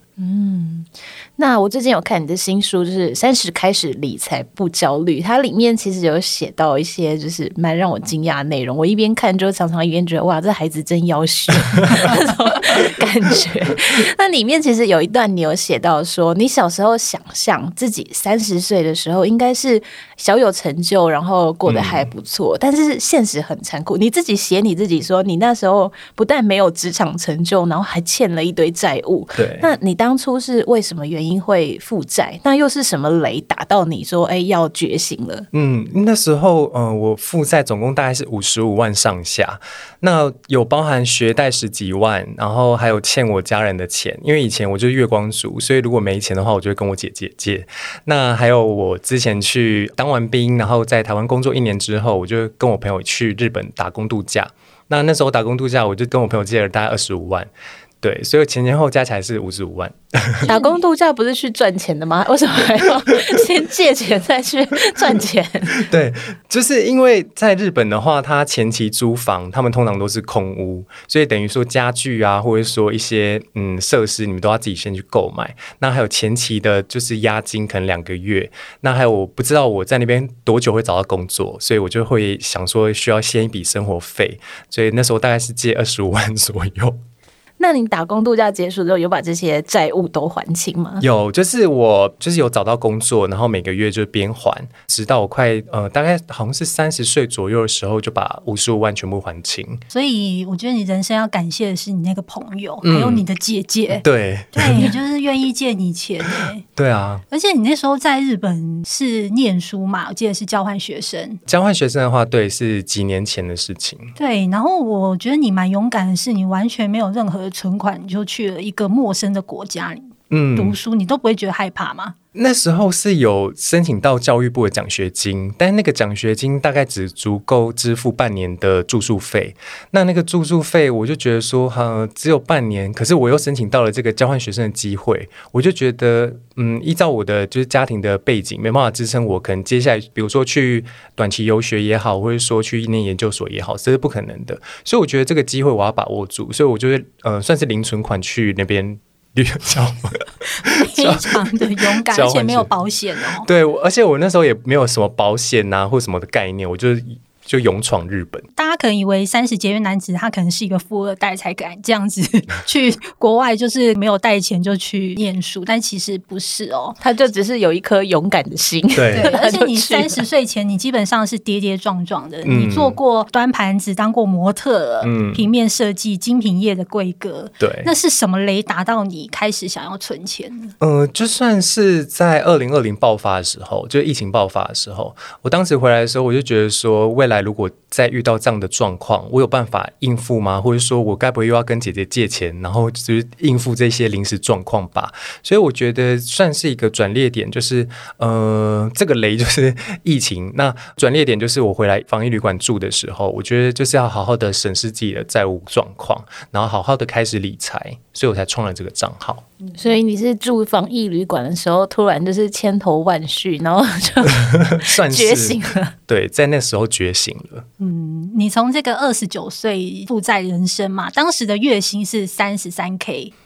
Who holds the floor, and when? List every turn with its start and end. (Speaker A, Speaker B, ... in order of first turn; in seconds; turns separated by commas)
Speaker A: 0.2-35.5, Speaker B: 21.7-22.1, Speaker B: 29.4-29.7, Speaker B: 35.5-57.5, Speaker B: 58.0-60.5, Speaker A: 60.5-65.8, Speaker C: 60.5-60.8, Speaker B: 65.7-87.0, Speaker A: 87.6-91.0, Speaker B: 91.0-99.8, Speaker C: 99.9-106.6, Speaker B: 102.8-103.2, Speaker B: 104.0-105.0, Speaker B: 106.2-107.2, Speaker C: 107.3-111.4, Speaker B: 111.5-114.1, Speaker C: 114.2-122.2, Speaker B: 120.3-120.8, Speaker B: 122.3-152.7, Speaker C: 150.7-153.5, Speaker B: 153.4-158.5, Speaker C: 158.6-167.0, Speaker A: 167.0-170.2, Speaker B: 168.9-169.3, Speaker C: 169.1-180.7, Speaker B: 172.4-173.0, Speaker B: 175.0-175.5, Speaker B: 177.6-177.9, Speaker B: 180.8-209.4, Speaker A: 209.8-215.9, Speaker B: 214.7-217.7, Speaker C: 217.8-223.3